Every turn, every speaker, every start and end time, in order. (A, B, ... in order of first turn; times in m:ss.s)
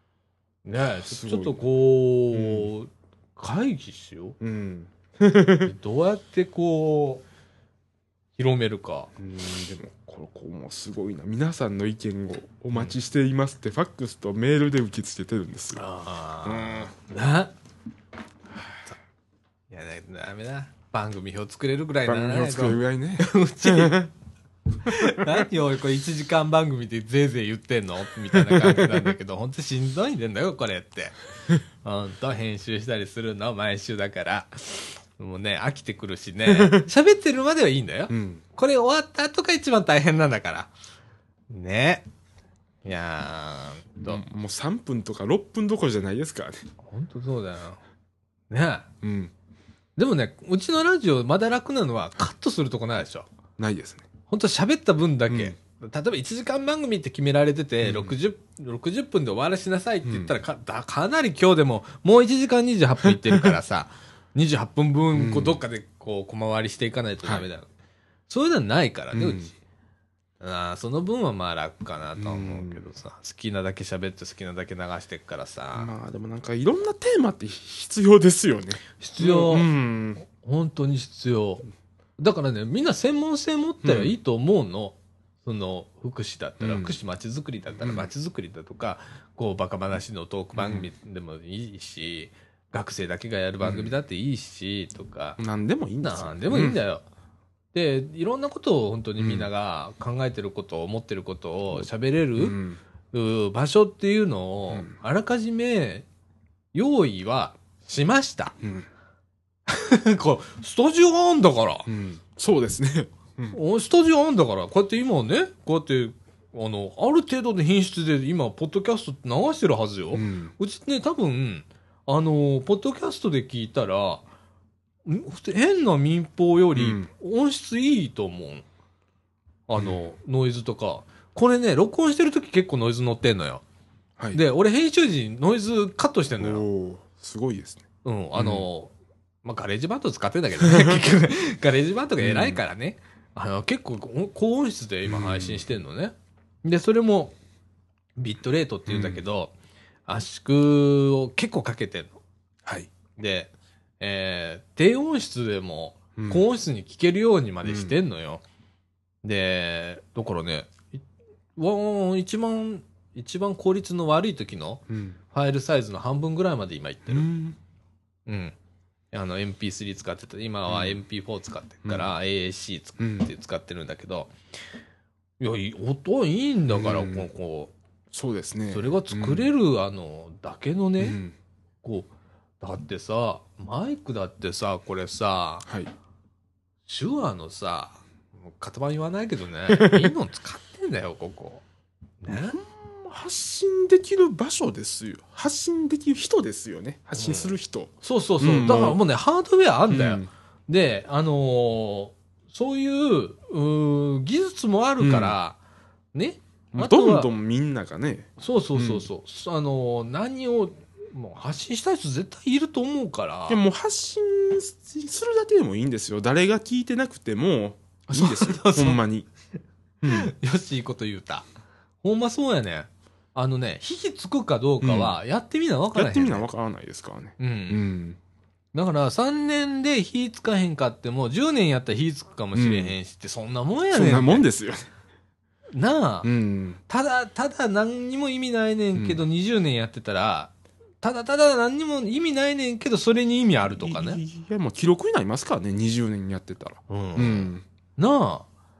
0:00.6-0:04.4 A
0:01.0-0:01.6 B
0:02.3-0:02.7 B
0:04.4-0:05.7 B
0:05.6-0:07.2 A
0:08.4-0:09.1 A
0:09.2-0:15.8 B
0:15.7-0:17.5 A
0:16.4-0:16.9 B
0:19.7-0:24.0 A
0:22.0-0:24.1 B
0:24.8-0:31.2 A
0:24.8-0:25.4 B
0:28.3-0:29.1 B
0:31.8-0:40.7 A
0:36.5-0:36.8 B
0:38.1-0:38.4 B
0:41.5-0:42.0 A
0:42.8-0:44.2 A
0:44.0-0:46.6 B
0:46.8-0:47.8 A
0:48.5-0:48.9 A
0:49.0-0:49.3 B
0:50.0-0:53.3 A
0:53.6-0:54.0 B
0:54.3-1:07.7 A
0:55.3-0:55.6 B
0:57.8-0:58.1 B
1:00.0-1:00.3 B
1:03.0-1:03.6 B
1:05.1-1:05.6 B
1:08.3-1:09.5 A
1:09.1-1:09.5 B
1:10.4-1:15.9 A
1:12.2-1:12.8 B
1:15.7-1:20.2 B
1:19.0-1:19.7 A
1:20.2-1:21.6 A
1:22.2-1:35.4 A
1:23.8-1:24.1 B
1:26.6-1:27.0 B
1:27.8-1:28.1 B
1:30.5-1:30.9 B
1:33.6-1:33.9 B
1:35.4-1:36.8 B
1:36.0-1:37.0 A
1:37.7-1:42.6 A
1:39.2-1:39.5 B
1:42.4-1:42.8 B
1:43.1-1:46.0 A
1:46.7-1:48.6 A
1:48.6-1:48.9 B
1:49.7-1:51.9 A
1:51.8-1:53.6 B
1:53.5-2:04.2 A
2:00.1-2:00.5 B
2:05.0-2:08.6 A
2:06.8-2:07.1 B
2:09.7-2:13.6 A
2:09.8-2:10.0 B
2:14.3-2:16.6 A
2:16.4-2:18.7 B
2:18.0-2:18.9 A
2:19.4-2:27.4 A
2:20.6-2:21.0 B
2:22.2-2:22.6 B
2:25.0-2:25.6 B
2:28.2-2:29.5 A
2:28.9-2:29.2 B
2:30.1-2:32.1 A
2:33.2-2:38.4 A
2:36.2-2:36.4 B
2:37.6-2:38.0 B
2:39.2-2:41.0 A
2:41.6-2:47.3 A
2:44.9-2:45.2 B
2:47.1-2:47.6 B
2:48.3-2:48.6 A
2:49.1-2:54.3 A
2:50.6-2:51.0 B
2:53.0-2:53.3 B
2:55.4-2:57.7 A
2:56.7-2:57.3 B
2:58.1-2:59.5 B
2:58.7-3:01.2 A
3:01.0-3:01.3 B
3:01.8-3:02.1 A
3:02.6-3:05.7 A
3:05.6-3:05.9 B
3:06.8-3:11.6 A
3:09.7-3:10.1 B
3:12.2-3:12.6 A
3:12.3-3:19.0 B
3:17.1-3:25.6 A
3:19.9-3:20.3 B
3:25.0-3:25.3 B
3:26.1-3:27.3 A
3:26.7-3:29.0 B
3:28.4-3:33.6 A
3:33.5-3:39.3 B
3:38.1-3:39.0 A
3:40.0-3:40.3 B
3:40.1-3:41.4 A
3:42.0-3:46.5 A
3:44.8-3:45.1 B
3:45.9-3:48.2 B
3:47.4-3:47.9 A
3:48.7-3:54.4 A
3:52.5-3:53.0 B
3:53.9-3:54.9 B
3:55.7-3:56.3 A
3:56.2-3:56.8 B
3:56.9-4:04.2 A
3:58.9-3:59.2 B
4:03.7-4:07.6 B
4:06.9-4:08.4 A